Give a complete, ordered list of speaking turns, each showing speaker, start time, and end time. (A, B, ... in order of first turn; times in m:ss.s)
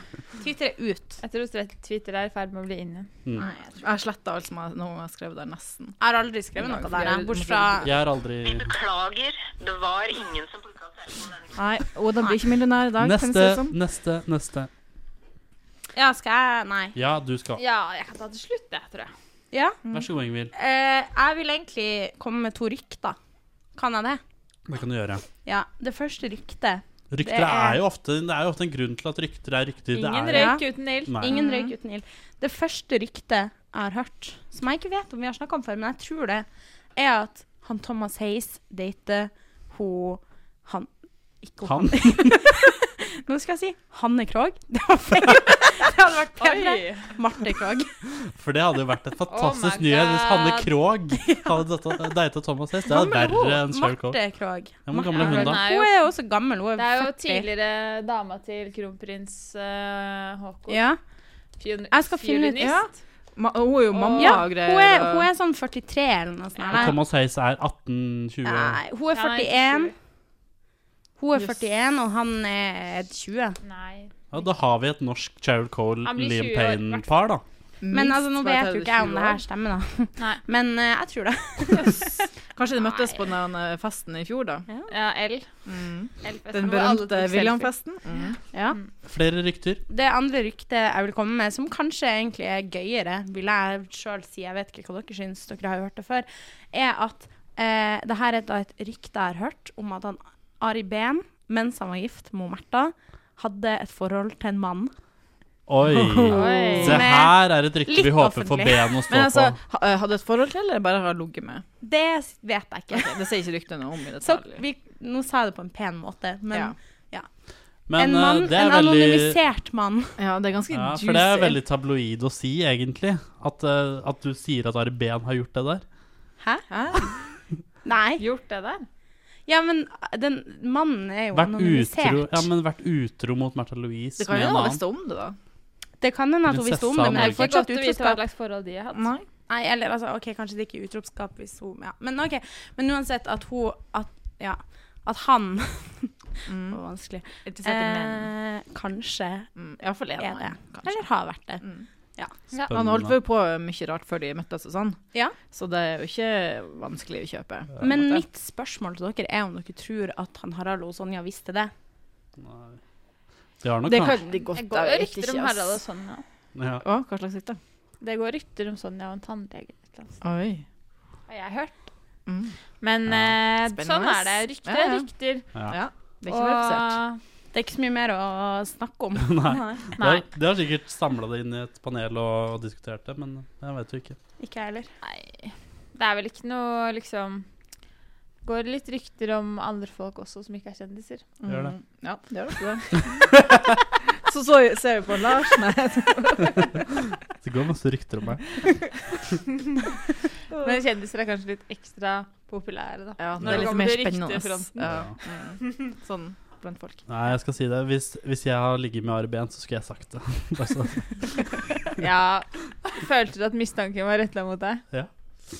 0:00.4-0:01.2 A
0:01.2-0:03.1 B
0:03.4-0:03.8 A
0:03.8-0:06.0 C
0:06.0-0:07.9 A
0:06.6-0:07.9 C
0:07.8-0:08.7 D
0:08.4-0:11.6 E
0:11.6-0:13.7 C
0:13.0-0:14.7 D
0:15.9-0:17.0 A
0:16.9-0:17.6 D
0:17.6-0:19.1 B
0:19.5-0:19.8 A
0:19.9-0:20.5 D
0:20.5-0:23.2 A
0:23.8-0:24.2 A
0:24.7-0:25.2 D
0:25.4-0:27.8 A
0:27.1-0:31.4 D
0:29.9-0:31.4 B
0:30.3-0:40.9 A
0:41.4-0:47.9 A
0:41.6-0:42.4 D
0:46.4-0:47.2 B
0:48.1-0:54.2 D
0:49.3-0:50.7 B
0:52.8-0:57.5 A
0:54.8-0:55.6 D
0:55.1-0:56.1 B
0:56.8-1:00.8 B
1:00.7-1:01.0 A
1:01.6-1:02.9 B
1:01.9-1:02.7 A
1:02.6-1:05.3 C
1:03.9-1:04.4 B
1:04.2-1:07.0 A
1:06.7-1:08.8 D
1:08.4-1:09.9 A
1:09.1-1:09.9 B
1:11.2-1:13.6 A
1:13.6-1:14.1 B
1:14.3-1:17.4 D
1:16.0-1:17.2 B
1:17.8-1:19.4 C
1:17.9-1:22.2 A
1:21.7-1:24.7 C
1:22.8-1:23.2 B
1:24.9-1:25.5 B
1:25.6-1:28.4 C
1:26.2-1:27.7 B
1:28.5-1:28.8 A
1:29.0-1:29.8 D
1:29.9-1:44.9 A
1:45.7-1:49.6 D
1:45.9-1:46.8 C
1:46.3-1:47.0 B
1:46.7-1:48.8 A
1:49.1-1:51.6 C
1:51.8-1:53.2 A
1:52.9-1:54.6 C
1:54.2-1:57.3 A
1:57.9-1:59.4 D
1:58.0-2:00.2 A
2:00.2-2:01.6 C
2:00.7-2:05.8 D
2:06.4-2:07.0 A
2:06.7-2:07.0 C
2:07.8-2:08.2 A
2:08.2-2:08.8 B
2:09.5-2:12.4 A
2:11.3-2:14.8 D
2:14.2-2:15.4 C
2:16.0-2:18.2 A
2:16.4-2:17.5 D
2:17.1-2:19.1 B
2:18.9-2:19.2 C
2:19.5-2:26.1 A
2:26.5-2:26.8 C
2:26.7-2:29.5 A
2:27.4-2:28.3 C
2:29.6-2:31.0 C
2:30.2-2:31.6 A
2:31.6-2:31.8 C
2:32.6-2:38.2 C
2:32.7-2:33.2 D
2:37.8-2:41.7 A
2:42.4-2:42.8 D
2:43.6-2:44.2 D
2:43.8-2:45.8 C
2:44.5-2:46.2 B
2:46.6-2:46.8 D
2:46.8-2:47.6 C
2:48.0-2:50.2 B
2:50.2-2:50.6 C
2:51.3-2:51.9 B
2:52.3-2:52.5 C
2:52.8-2:55.5 B
2:53.1-2:53.3 D
2:53.7-2:55.0 C
2:55.7-2:57.0 C
2:56.2-2:57.2 B
2:57.5-2:59.5 A
2:59.2-3:04.2 D
2:59.5-2:59.8 C
3:00.0-3:00.2 B
3:04.4-3:04.9 A
3:05.0-3:07.4 B
3:08.4-3:11.2 B
3:11.4-3:13.3 C
3:11.5-3:11.7 D
3:14.2-3:17.0 C
3:17.4-3:18.6 D
3:20.5-3:24.9 B
3:23.2-3:27.0 C
3:23.4-3:23.8 D
3:24.8-3:25.1 D
3:27.1-3:31.5 D
3:32.0-3:34.8 B